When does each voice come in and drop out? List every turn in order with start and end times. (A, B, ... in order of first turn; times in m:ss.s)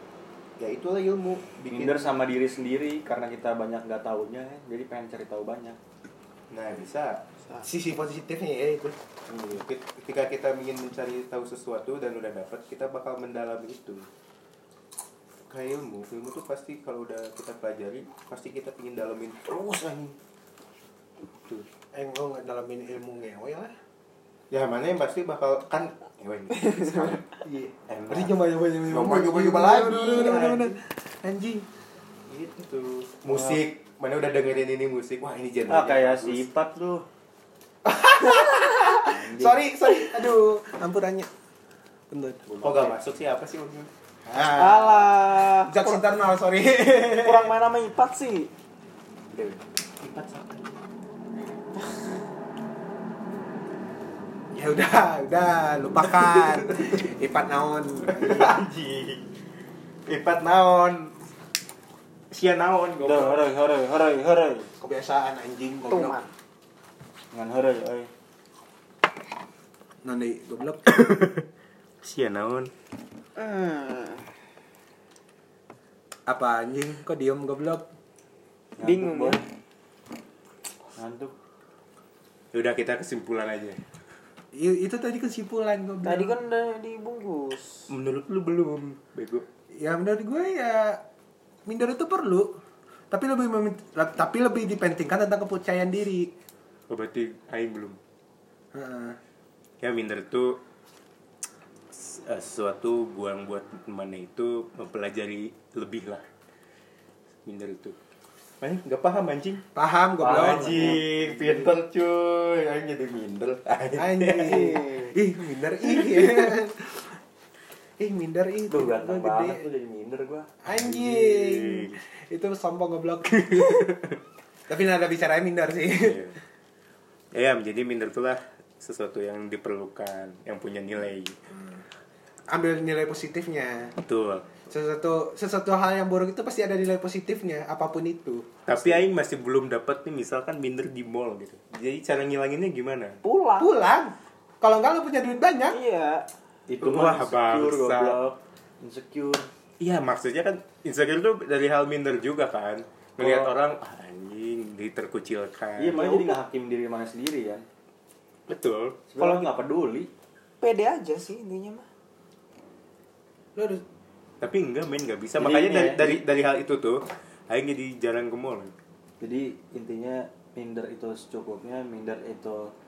0:00.6-0:02.1 A
0:01.7-0:05.8 B
0:06.5-0:07.2 A
0:07.6-0:09.0 C
0:09.3-0:09.6 B
0:09.5-0:14.1 A
0:15.5-0:20.2 A
0:21.9-0:23.7 C
0:24.5-0:27.2 A
0:27.4-0:31.6 C
0:27.9-0:28.3 A
0:28.9-0:30.8 A
0:32.3-0:36.4 A
0:33.3-0:33.6 B
0:35.7-0:37.0 B
0:37.8-0:41.3 C
0:39.0-0:39.6 B
0:42.1-0:42.4 C
0:42.4-0:43.0 B
0:42.6-0:43.9 A
0:44.2-0:47.5 C
0:44.6-0:46.0 D
0:47.2-0:48.5 D
0:49.3-0:49.6 B
0:50.0-0:50.7 A
0:54.5-0:58.6 C
0:56.5-0:56.9 A
0:58.0-0:59.2 A
1:00.1-1:01.1 A
1:02.3-1:03.4 A
1:03.0-1:04.7 B
1:04.8-1:06.2 C
1:05.9-1:06.3 D
1:07.3-1:08.1 B
1:10.0-1:10.8 C
1:10.8-1:11.4 A
1:12.0-1:12.7 A
1:13.4-1:14.2 D
1:16.3-1:17.8 C
1:18.8-1:19.4 B
1:18.8-1:19.4 D
1:21.0-1:21.3 B
1:22.5-1:23.8 A
1:24.5-1:26.3 C
1:26.0-1:27.9 D
1:27.9-1:29.4 A
1:29.7-1:31.0 C
1:31.7-1:32.6 C
1:33.1-1:36.3 C
1:36.9-1:38.0 A
1:38.7-1:39.2 C
1:39.8-1:40.6 A
1:41.9-1:46.2 A
1:47.4-1:48.0 A
1:48.6-1:49.6 A
1:49.7-1:51.0 C
1:50.2-1:51.6 B
1:50.3-1:54.8 A
1:54.0-1:57.2 C
1:54.4-1:55.1 D
1:55.9-1:56.5 A
1:58.0-1:59.6 C
1:58.7-2:00.5 B
2:00.6-2:03.8 C
2:00.7-2:02.0 A
2:03.4-2:04.2 A
2:04.7-2:06.2 C
2:06.0-2:06.4 A
2:07.3-2:11.4 A
2:12.5-2:14.0 C
2:14.0-2:14.5 A
2:14.7-2:18.5 C
2:18.6-2:23.2 A
2:23.2-2:23.8 D
2:23.6-2:25.8 C
2:25.7-2:26.3 D
2:26.7-2:29.5 B
2:26.8-2:28.2 A
2:29.8-2:36.0 A
2:33.2-2:33.5 B
2:35.8-2:37.6 B
2:36.0-2:36.4 D
2:38.5-2:39.4 A
2:39.1-2:40.1 B
2:40.6-2:41.9 D
2:43.6-2:43.8 C
2:44.4-2:48.7 A
2:45.4-2:46.2 B
2:49.2-2:52.7 B